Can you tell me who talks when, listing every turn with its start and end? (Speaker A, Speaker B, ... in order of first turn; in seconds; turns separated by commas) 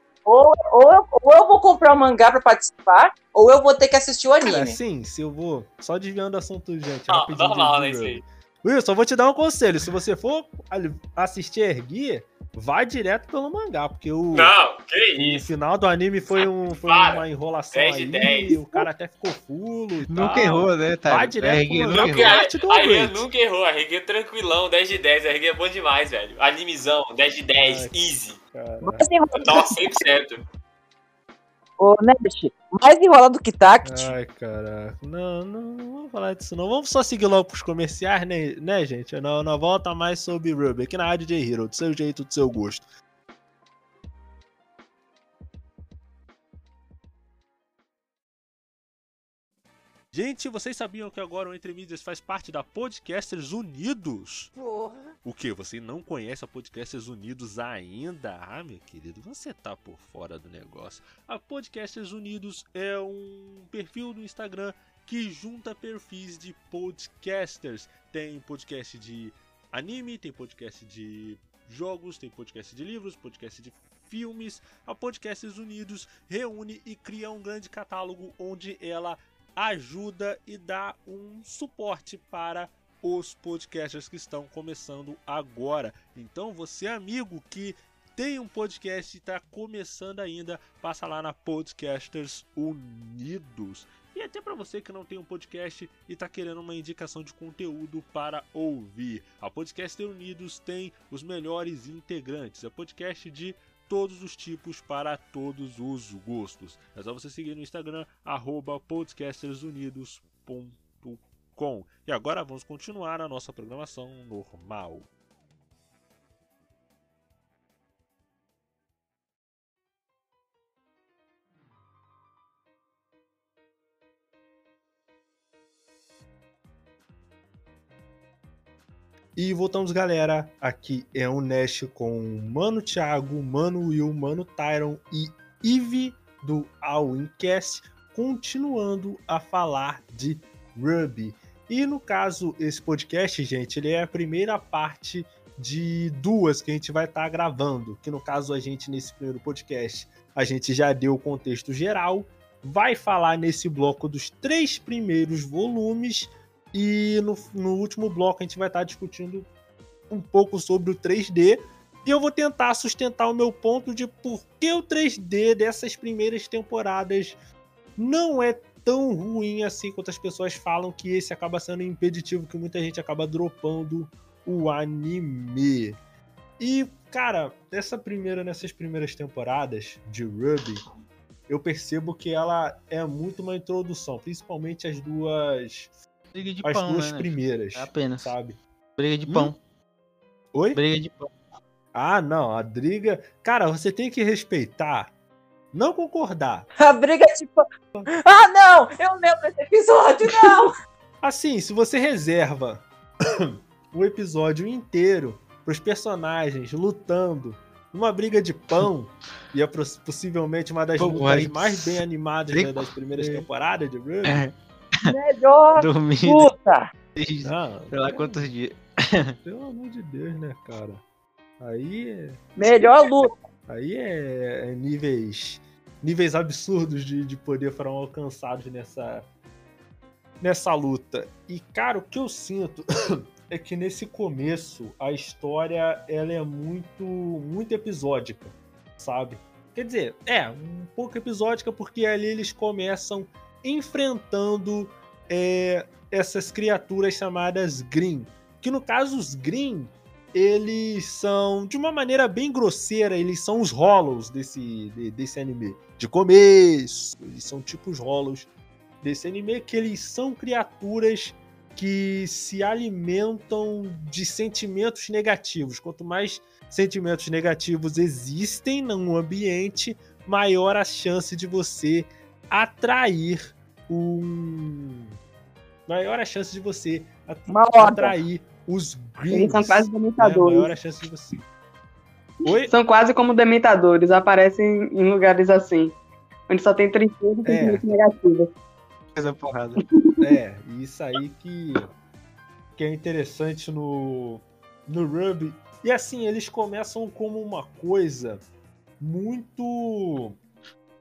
Speaker A: 0.2-4.8, Speaker B: 4.4-14.5, Speaker C: 7.1-8.2, Speaker C: 14.3-15.4, Speaker B: 15.2-23.2, Speaker C: 16.4-18.5, Speaker D: 20.1-22.4, Speaker C: 21.9-28.4, Speaker B: 27.6-27.9, Speaker B: 28.5-29.0, Speaker A: 28.8-29.7, Speaker C: 29.4-30.4, Speaker A: 31.8-34.1, Speaker B: 33.8-42.8, Speaker B: 50.1-54.5, Speaker A: 54.6-55.0, Speaker B: 55.2-115.1, Speaker B: 129.3-159.5, Speaker B: 160.1-167.3, Speaker B: 168.0-176.0, Speaker B: 176.6-180.8, Speaker B: 181.5-185.9, Speaker D: 186.3-188.3, Speaker B: 186.6-188.6, Speaker D: 189.0-189.6, Speaker B: 189.3-189.5, Speaker B: 190.5-190.8, Speaker D: 190.7-191.3, Speaker B: 191.9-195.1, Speaker B: 195.7-196.7, Speaker A: 196.8-200.7, Speaker B: 201.2-214.4, Speaker D: 211.0-213.4, Speaker D: 214.2-214.5, Speaker A: 215.0-216.9, Speaker D: 215.8-216.5, Speaker D: 217.2-219.3, Speaker B: 217.4-218.5, Speaker B: 219.4-221.0, Speaker B: 221.6-222.9, Speaker A: 222.6-223.3, Speaker B: 223.7-229.2, Speaker B: 230.4-258.5, Speaker B: 259.0-275.1, Speaker B: 275.9-281.4, Speaker A: 277.5-278.1, Speaker E: 279.3-280.7, Speaker B: 282.4-282.7, Speaker E: 282.7-285.9, Speaker E: 286.5-288.5, Speaker B: 287.4-287.8, Speaker D: 289.1-289.8, Speaker E: 290.0-290.3, Speaker B: 290.2-291.9, Speaker B: 292.8-298.4, Speaker B: 299.0-300.4